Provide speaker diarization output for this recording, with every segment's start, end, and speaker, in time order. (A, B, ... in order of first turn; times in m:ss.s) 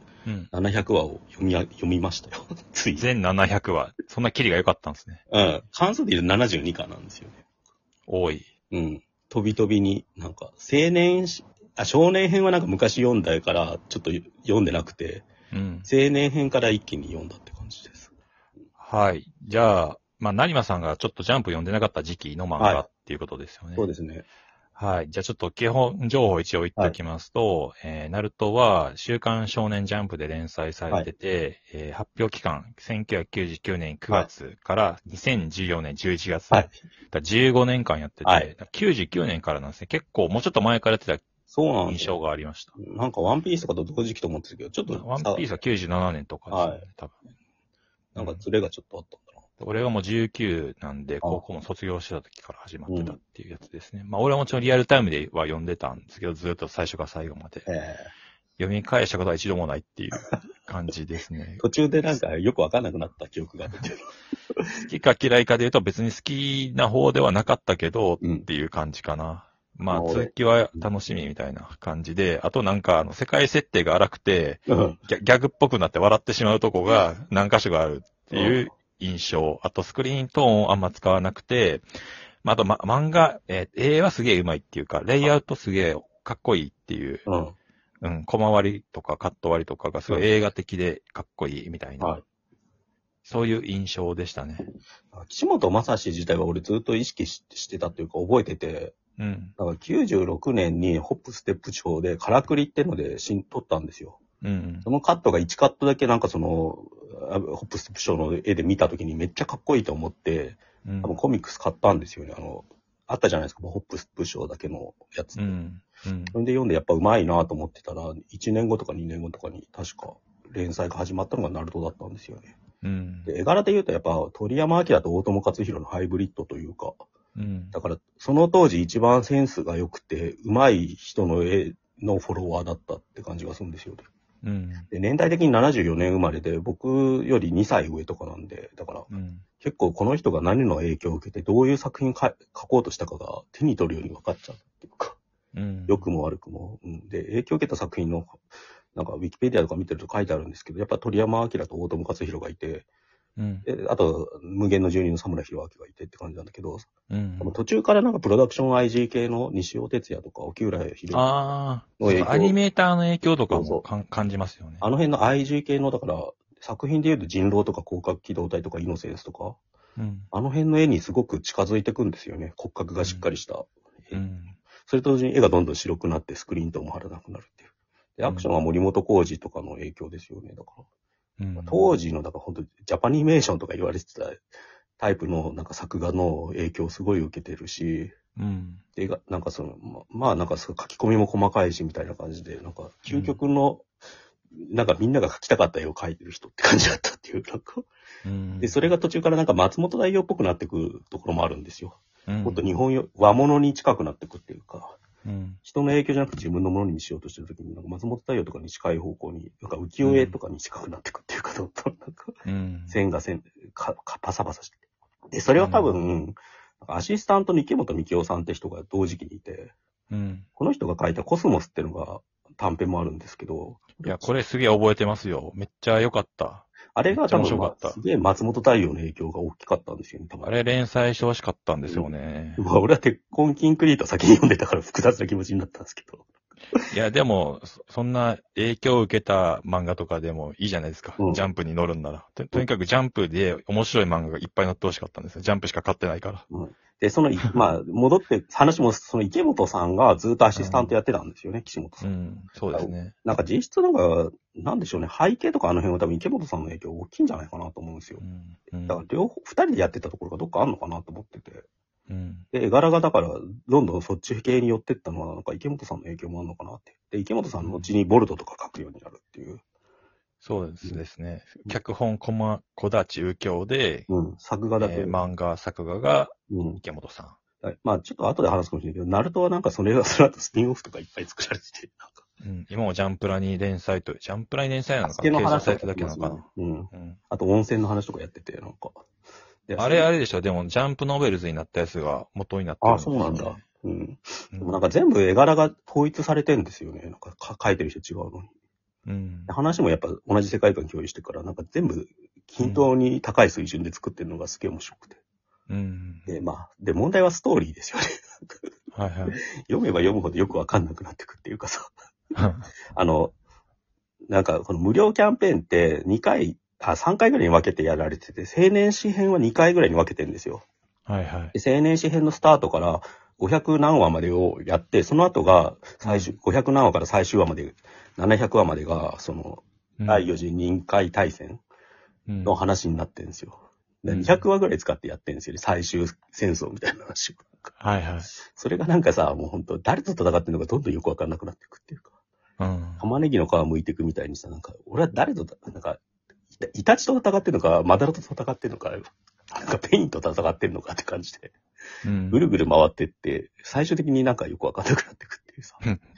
0:00.2-0:00.5 A
0:00.5-0:03.1 B
0:03.0-0:05.2 A
0:05.3-0:07.4 B
0:08.1-0:08.5 A
0:08.7-0:15.3 B
0:15.5-0:15.9 A
0:15.9-0:18.1 B
0:18.8-0:23.9 A
0:22.6-0:22.9 B
0:23.8-0:24.2 B
0:24.8-0:41.2 A
0:38.2-0:38.5 B
0:41.5-0:42.2 B
0:41.9-0:42.7 A
0:42.8-0:45.5 B
0:44.9-0:47.2 A
0:46.5-0:46.9 B
0:48.2-0:48.4 A
0:48.2-0:49.4 B
0:49.6-0:57.7 A
0:52.9-0:53.2 B
0:57.7-0:58.1 B
0:58.6-1:01.6 A
1:01.6-1:04.8 B
1:04.9-1:21.9 A
1:08.2-1:08.5 B
1:09.9-1:10.9 B
1:14.7-1:15.0 B
1:18.3-1:18.7 B
1:22.4-1:27.3 A
1:27.3-1:27.6 B
1:28.0-1:32.1 A
1:30.1-1:30.4 B
1:33.2-1:34.7 A
1:35.1-1:39.0 B
1:39.2-1:39.5 A
1:39.6-1:44.2 B
1:44.4-1:44.9 A
1:44.8-1:55.6 B
1:50.8-1:51.2 A
1:55.4-1:56.4 A
1:56.3-2:02.5 B
2:02.8-2:03.3 A
2:03.3-2:07.0 B
2:07.4-2:07.8 A
2:07.7-2:14.1 B
2:14.4-2:14.9 A
2:14.9-2:25.2 B
2:19.1-2:19.4 A
2:25.5-2:26.1 A
2:25.9-2:28.4 B
2:28.9-2:32.9 B
2:33.4-2:33.7 A
2:33.7-2:36.9 B
2:37.1-2:37.5 A
2:37.4-2:41.3 B
2:41.1-2:44.8 A
2:42.0-2:42.6 B
2:43.5-2:43.8 B
2:44.8-2:49.6 B
2:50.0-2:50.3 A
2:50.3-2:54.2 B
2:53.0-2:53.3 A
2:54.1-2:54.6 A
2:54.8-3:00.8 B
3:01.4-3:01.9 A
3:01.6-3:04.5 B
3:05.0-3:08.2 B
3:08.4-3:08.8 A
3:09.0-3:13.8 B
3:13.1-3:13.4 A
3:14.6-3:17.9 B
3:18.2-3:18.8 A
3:18.6-3:25.0 B
3:22.3-3:22.7 A
3:25.2-3:25.6 A
3:25.6-3:32.4 B
3:30.0-3:30.4 A
3:32.4-3:33.0 A
3:32.9-3:39.7 B
3:35.6-3:36.0 A
3:40.1-3:40.5 A
3:40.6-3:44.3 B
3:44.0-3:48.0 A
3:47.0-3:50.5 B
3:50.4-3:52.6 A
3:51.9-3:56.3 B
3:56.9-4:06.4 A
4:06.5-4:12.1 B
4:10.6-4:10.9 A
4:12.0-4:13.2 A
4:12.7-4:18.2 B
4:18.2-4:19.0 A
4:18.9-4:21.6 B
4:22.1-4:22.5 A
4:22.5-4:29.6 B
4:27.6-4:27.9 A
4:30.4-4:34.1 A
4:34.1-4:35.2 B
4:34.8-4:37.4 A
4:36.5-4:36.8 B
4:37.6-4:42.2 B
4:42.4-4:47.2 A
4:45.0-4:49.0 B
4:49.7-4:50.1 B
4:49.8-4:53.6 A
4:52.8-4:58.5 B
4:54.5-4:54.8 A
4:59.1-4:59.5 A
4:59.5-5:05.2 B
5:02.6-5:02.9 A
5:05.7-5:06.4 A
5:06.3-5:08.6 B
5:08.9-5:09.4 A
5:09.3-5:11.9 B
5:12.4-5:12.7 A
5:12.9-5:13.3 B
5:14.3-5:20.6 B
5:21.1-5:21.5 A
5:21.5-5:31.6 B
5:26.0-5:26.4 A
5:30.0-5:30.2 A
5:32.3-5:32.6 A
5:32.4-5:37.7 B
5:34.1-5:34.4 A
5:37.8-5:38.3 A
5:38.3-5:42.1 B
5:42.6-5:43.0 A
5:43.0-5:46.0 B
5:46.6-5:51.6 B
5:52.0-5:52.4 A
5:52.3-5:55.8 B